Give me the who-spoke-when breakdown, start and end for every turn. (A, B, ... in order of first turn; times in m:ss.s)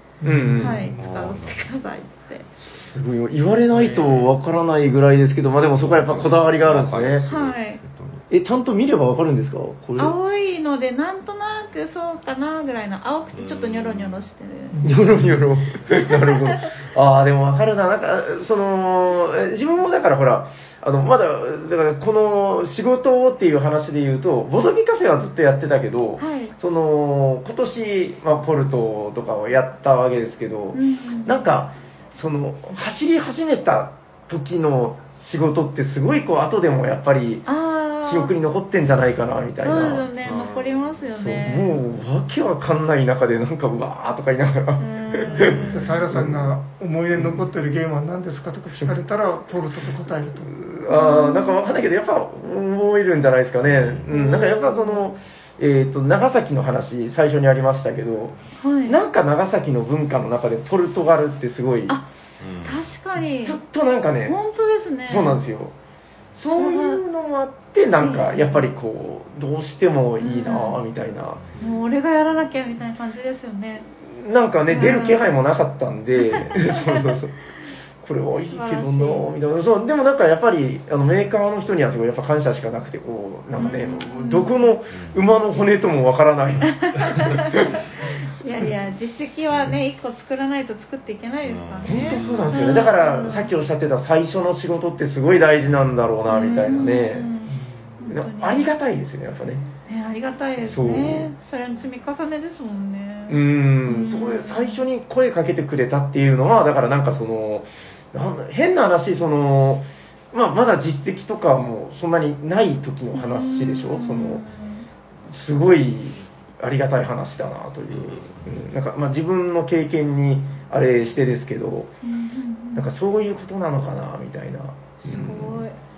0:00.2-0:01.0 A
0:00.2-0:01.0 B
0:00.6-0:02.5 C
0:00.9-0:01.7 D
0:02.6-0:07.3 B
0:03.8-0:04.3 D
0:05.7-0:08.2 D
0:07.3-0:07.8 C
0:08.3-0:10.2 B
0:10.0-0:14.9 C
0:13.3-0:14.3 D
0:14.7-0:15.1 A
0:14.8-0:37.5 B
0:16.1-0:16.7 C
0:26.2-0:26.5 C
0:30.7-0:31.4 C
0:37.4-0:38.3 C
0:38.0-0:40.1 B
0:39.6-0:41.8 C
0:40.2-0:40.9 D
0:41.1-0:46.5 B
0:44.8-0:45.8 C
0:45.4-0:46.0 D
0:45.6-0:50.5 A
0:47.1-0:47.5 B
0:48.8-0:49.0 B
0:50.4-1:02.0 B
0:50.9-0:51.6 C
0:53.6-0:54.1 D
0:54.1-0:55.0 C
0:58.6-0:59.0 C
1:02.4-1:02.8 D
1:02.6-1:03.6 C
1:03.4-1:04.4 B
1:04.3-1:05.4 C
1:05.0-1:05.7 B
1:06.3-1:11.4 B
1:06.5-1:07.0 C
1:08.0-1:08.7 C
1:10.2-1:10.8 C
1:11.6-1:13.9 C
1:14.0-1:17.4 B
1:14.7-1:15.4 C
1:16.2-1:17.2 C
1:18.0-1:27.7 B
1:18.5-1:19.3 C
1:23.6-1:24.7 C
1:24.9-1:25.2 D
1:26.8-1:27.7 C
1:28.4-1:33.5 C
1:31.4-1:32.7 D
1:31.8-1:37.3 B
1:36.3-1:38.7 C
1:37.5-1:37.8 A
1:38.1-1:39.7 B
1:39.9-1:44.8 C
1:40.6-1:41.3 B
1:43.3-1:54.4 B
1:53.1-1:54.8 C
1:55.3-2:01.9 B
1:57.9-1:58.4 D
2:02.0-2:02.9 C
2:02.7-2:05.6 B
2:05.0-2:05.8 C